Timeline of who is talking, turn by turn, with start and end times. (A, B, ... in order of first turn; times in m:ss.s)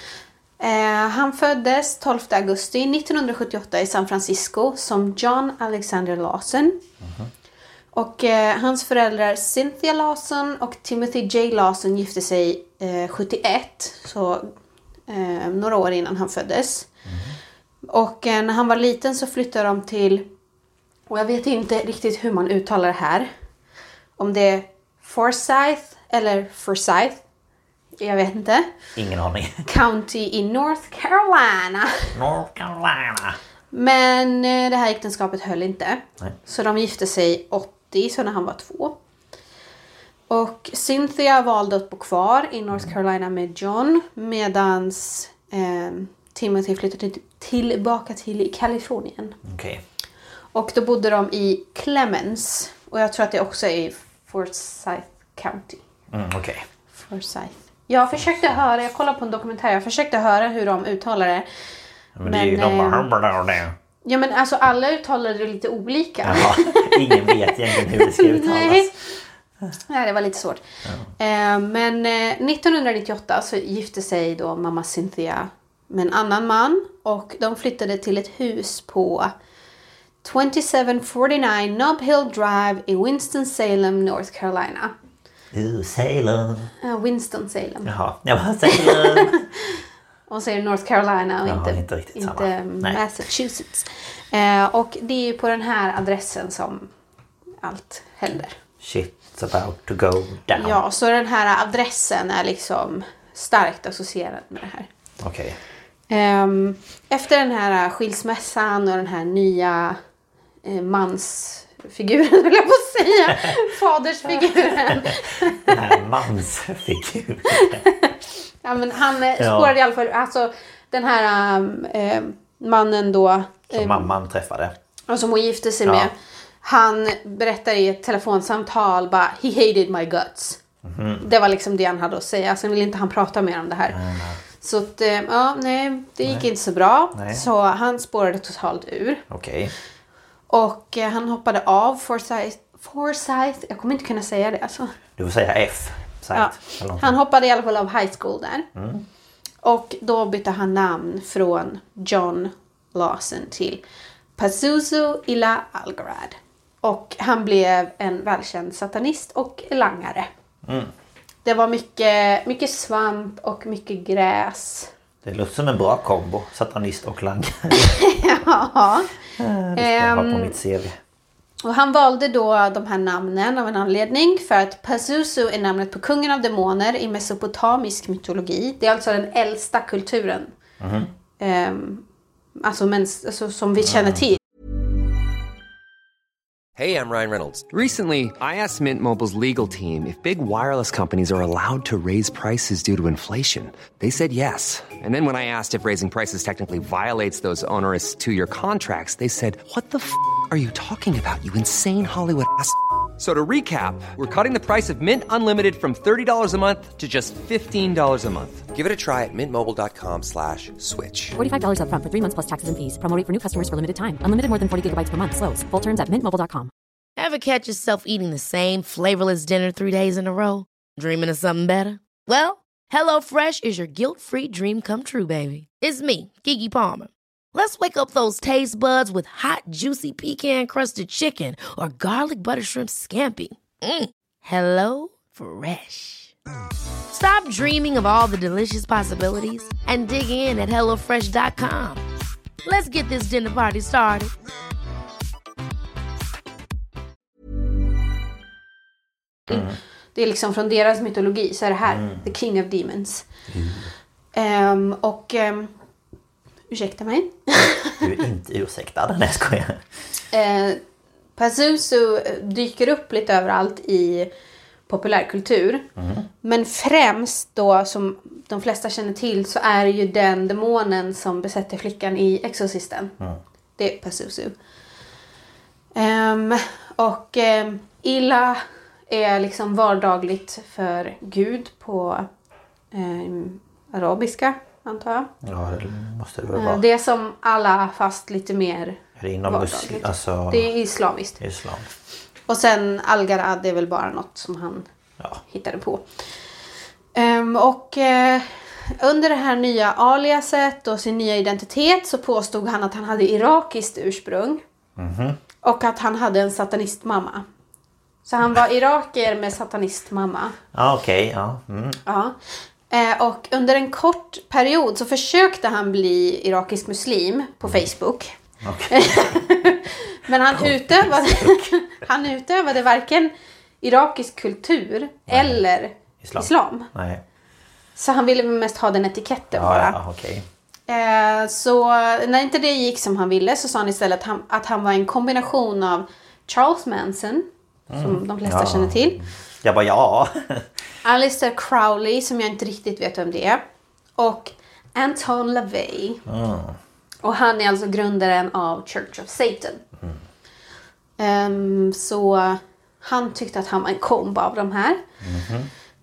0:00.6-0:06.8 A
0:07.0-0:07.3 B
0:07.9-0:14.5 A
0:15.1-0:16.9 A
0:17.1-0:17.3 B
0:17.9-0:20.3 A
0:21.1-0:23.3 A
0:24.2-0:27.2 A
0:28.0-0:28.7 A
0:29.0-0:29.6 B
0:29.6-0:32.1 A
0:32.1-0:33.4 B
0:33.7-0:39.0 A
0:40.3-0:49.4 A
0:49.4-0:49.8 B
0:50.5-0:55.8 A
0:56.1-0:56.6 B
0:56.9-1:01.5 A
0:58.2-0:58.5 B
1:02.2-1:03.8 B
1:02.2-1:03.1 A
1:04.0-1:08.9 A
1:06.2-1:08.9 B
1:09.9-1:10.6 A
1:11.2-1:19.3 A
1:20.2-1:24.9 A
1:25.5-1:26.7 B
1:26.8-1:27.9 A
1:27.8-1:29.4 B
1:28.6-1:36.9 A
1:31.4-1:33.0 B
1:37.6-1:38.5 A
1:38.8-1:40.8 B
1:40.5-1:44.9 A
1:45.2-1:45.6 B
1:46.1-1:50.0 A
1:50.6-1:55.9 A
1:54.5-1:57.8 B
1:57.5-2:04.1 A
1:59.4-1:59.7 B
2:03.7-2:04.7 B
2:05.1-2:10.6 A
2:05.8-2:06.1 B
2:10.8-2:11.3 B
2:11.2-2:14.0 A
2:13.9-2:14.4 B
2:14.6-2:19.2 A
2:17.1-2:17.4 B
2:19.3-2:19.7 B
2:20.5-2:24.9 A
2:25.2-2:27.2 B
2:26.3-2:28.7 A
2:28.7-2:29.0 B
2:29.6-2:33.8 A
2:34.4-2:40.3 A
2:40.6-2:40.9 B
2:41.4-2:44.9 A
2:45.2-2:48.0 B
2:47.7-2:49.1 A
2:49.4-2:51.0 B
2:49.8-2:50.6 A
2:51.6-3:00.5 A
3:00.8-3:01.1 B
3:01.4-3:02.0 A
3:02.6-3:04.4 A
3:03.8-3:04.2 B
3:06.8-3:31.4 C
3:31.3-3:36.7 D
3:37.2-3:56.3 E
3:57.1-4:02.0 E
4:02.6-4:04.3 E
4:09.5-4:09.8 B
4:09.5-4:13.2 A
4:11.9-4:12.3 B
4:13.5-4:13.9 B
4:14.3-4:15.7 A
4:16.7-4:18.1 A
4:17.9-4:19.8 B
4:20.3-4:20.8 A
4:21.4-4:24.3 A
4:24.9-4:25.9 A
4:26.0-4:26.3 B
4:26.4-4:33.1 A
4:33.8-4:34.6 A
4:35.9-4:42.2 A
4:42.9-4:45.3 A
4:45.4-4:46.8 B
4:46.5-4:51.4 A
4:49.2-4:50.7 B
4:51.4-4:51.9 B
4:52.5-4:54.8 A
4:55.4-4:56.0 A
4:57.1-5:04.6 A
5:05.0-5:05.4 B
5:05.6-5:07.4 A
5:08.2-5:10.6 A
5:10.7-5:12.0 B
5:12.0-5:12.4 A
5:12.9-5:18.3 A
5:18.6-5:19.4 B
5:18.9-5:26.9 A
5:20.5-5:21.7 B
5:25.3-5:25.6 B
5:26.2-5:27.2 B
5:28.0-5:30.0 A
5:29.5-5:30.4 B
5:30.9-5:37.4 A
5:37.9-5:40.7 B
5:38.0-5:39.2 A
5:41.0-5:43.6 A
5:44.2-5:46.2 A
5:46.2-5:46.8 B
5:47.2-5:49.8 A
5:51.2-5:55.0 A
5:55.2-5:55.7 B